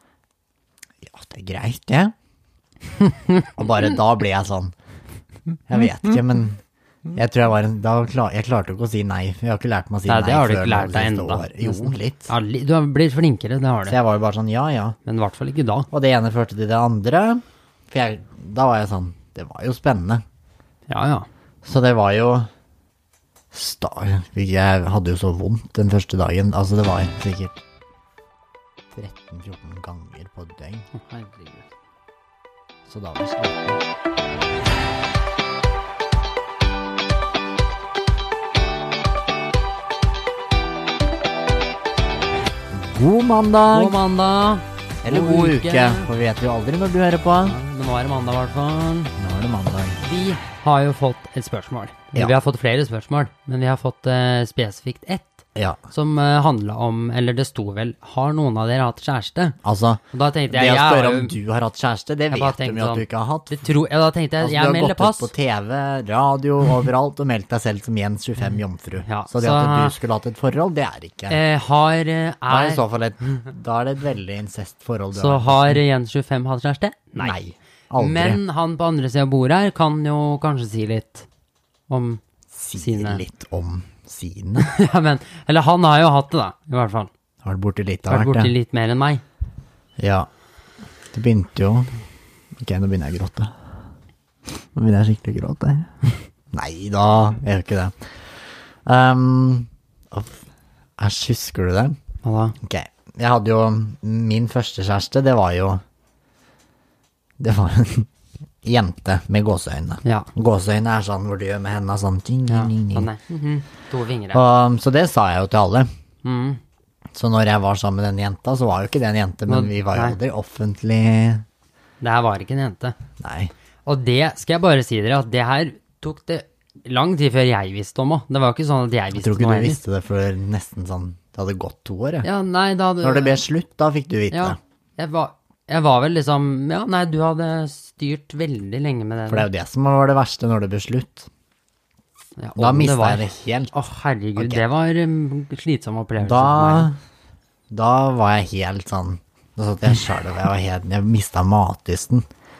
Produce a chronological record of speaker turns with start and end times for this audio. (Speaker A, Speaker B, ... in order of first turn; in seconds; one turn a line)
Speaker A: 1.0-2.1
Speaker B: 3.0-3.5
Speaker A: 3.6-4.7
Speaker A: 5.7-6.6
Speaker A: 7.1-12.3
Speaker B: 10.1-14.0
Speaker A: 13.8-15.0
Speaker B: 15.1-15.9
Speaker A: 15.9-20.2
Speaker B: 20.9-21.3
Speaker A: 21.6-22.5
Speaker A: 23.5-27.6
Speaker A: 28.9-30.9
Speaker B: 30.9-31.7
Speaker A: 32.9-33.8
Speaker A: 42.7-44.0
Speaker B: 43.7-46.1
Speaker A: 45.0-47.6
Speaker B: 47.4-49.1
Speaker A: 49.2-50.0
Speaker B: 50.0-59.6
Speaker A: 59.6-63.6
Speaker B: 60.1-61.3
Speaker B: 62.3-65.3
Speaker A: 64.4-71.4
Speaker B: 69.0-69.9
Speaker B: 71.3-72.8
Speaker A: 72.5-75.8
Speaker B: 75.1-77.3
Speaker A: 77.2-78.4
Speaker B: 78.0-81.2
Speaker B: 81.9-82.2
Speaker A: 82.5-84.7
Speaker B: 82.8-83.2
Speaker B: 84.6-87.1
Speaker A: 87.4-88.5
Speaker B: 88.1-89.2
Speaker A: 90.0-90.3
Speaker A: 91.1-91.9
Speaker A: 92.6-93.5
Speaker A: 94.6-100.4
Speaker A: 101.0-102.0
Speaker B: 102.2-102.5
Speaker A: 102.6-105.8
Speaker A: 107.4-108.1
Speaker A: 108.6-113.1
Speaker B: 110.0-110.3
Speaker B: 112.5-114.4
Speaker A: 114.3-115.9
Speaker B: 116.2-116.6
Speaker A: 117.1-121.4
Speaker B: 119.5-120.2
Speaker B: 122.0-122.9
Speaker A: 123.2-123.5
Speaker B: 123.8-129.8
Speaker A: 129.1-132.3
Speaker B: 132.2-133.4
Speaker A: 133.0-134.6
Speaker B: 134.3-139.5
Speaker A: 139.3-141.3
Speaker B: 142.4-146.9
Speaker A: 142.6-143.7
Speaker A: 144.4-144.6
Speaker A: 146.2-147.0
Speaker A: 147.7-152.2